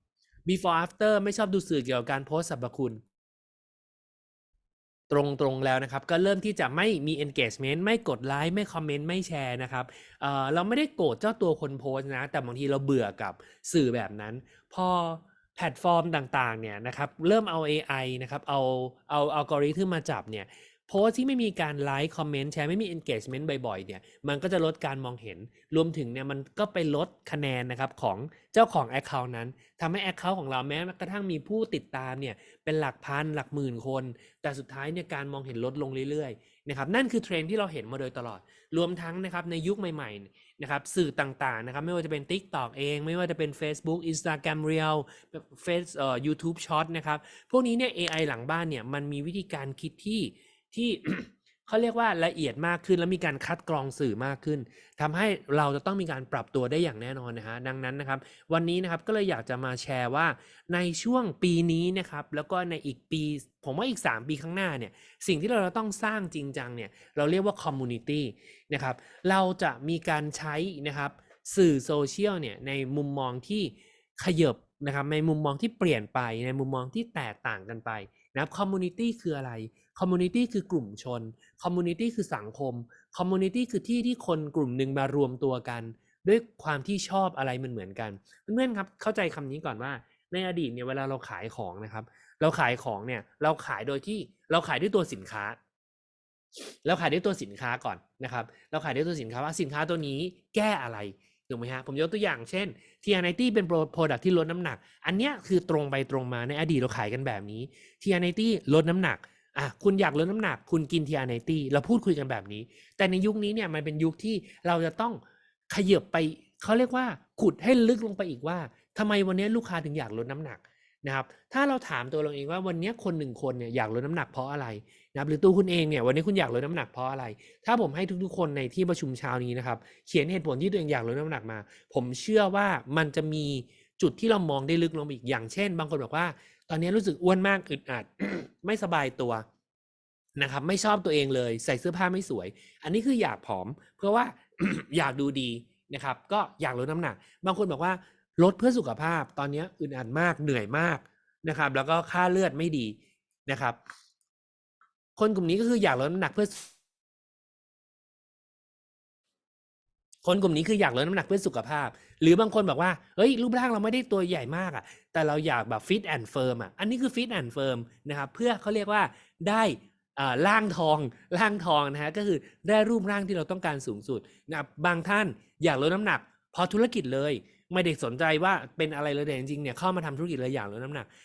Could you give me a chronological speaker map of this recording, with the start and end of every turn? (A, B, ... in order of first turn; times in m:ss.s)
0:00.5-0:03.0 A
0:05.1-1:35.6 A
1:36.8-2:19.4 A
2:20.4-2:33.8 A
2:35.2-2:36.7 A
2:40.2-3:01.1 A